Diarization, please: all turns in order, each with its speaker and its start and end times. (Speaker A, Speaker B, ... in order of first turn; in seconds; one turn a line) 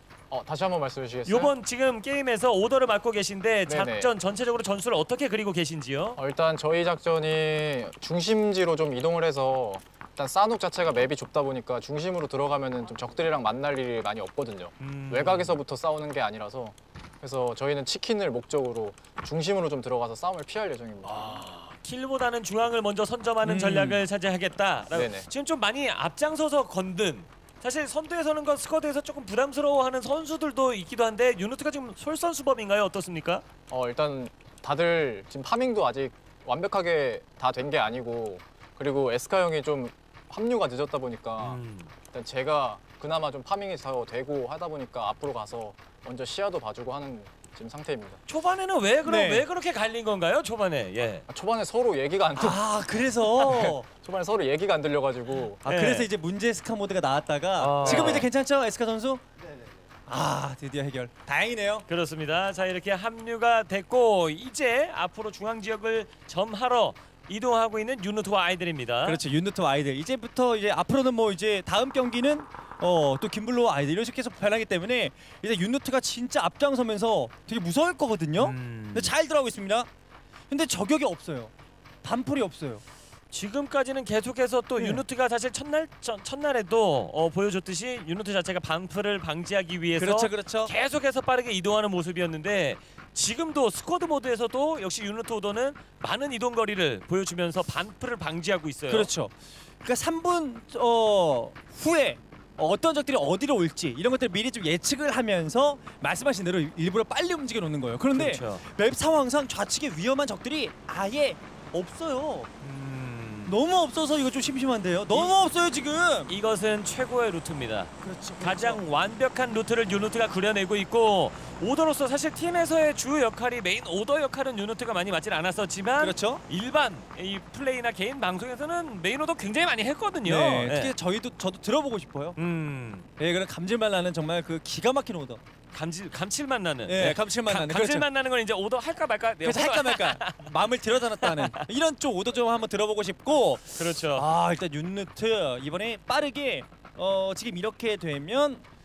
Speaker A: 0.3-1.5
Speaker B: 1.3-6.2
Speaker A: 3.7-4.1
Speaker A: 6.2-21.3
Speaker B: 14.8-15.6
Speaker B: 21.1-33.4
Speaker C: 23.4-24.0
Speaker A: 24.9-25.3
Speaker A: 33.7-41.6
Speaker B: 41.4-41.9
Speaker A: 42.1-48.2
Speaker B: 48.3-51.2
Speaker C: 49.0-49.5
Speaker A: 51.3-52.8
Speaker C: 52.4-53.9
Speaker B: 53.4-53.7
Speaker A: 53.9-55.6
Speaker C: 55.6-59.2
Speaker B: 55.6-56.1
Speaker B: 57.6-58.3
Speaker C: 60.1-61.9
Speaker B: 61.9-69.2
Speaker C: 69.0-79.9
Speaker B: 78.4-79.1
Speaker C: 80.5-82.8
Speaker B: 83.3-99.1
Speaker C: 84.8-85.0
Speaker C: 90.0-90.7
Speaker C: 98.9-112.5
Speaker B: 108.1-108.6
Speaker B: 112.6-113.6
Speaker C: 113.5-116.3
Speaker B: 116.3-117.9
Speaker C: 118.0-118.8
Speaker B: 118.4-130.9
Speaker C: 126.0-126.4
Speaker C: 130.2-132.4
Speaker B: 132.4-133.1
Speaker C: 133.2-135.4
Speaker B: 135.7-140.5
Speaker C: 136.9-138.1
Speaker C: 139.4-148.6
Speaker B: 141.1-141.7
Speaker B: 143.8-144.3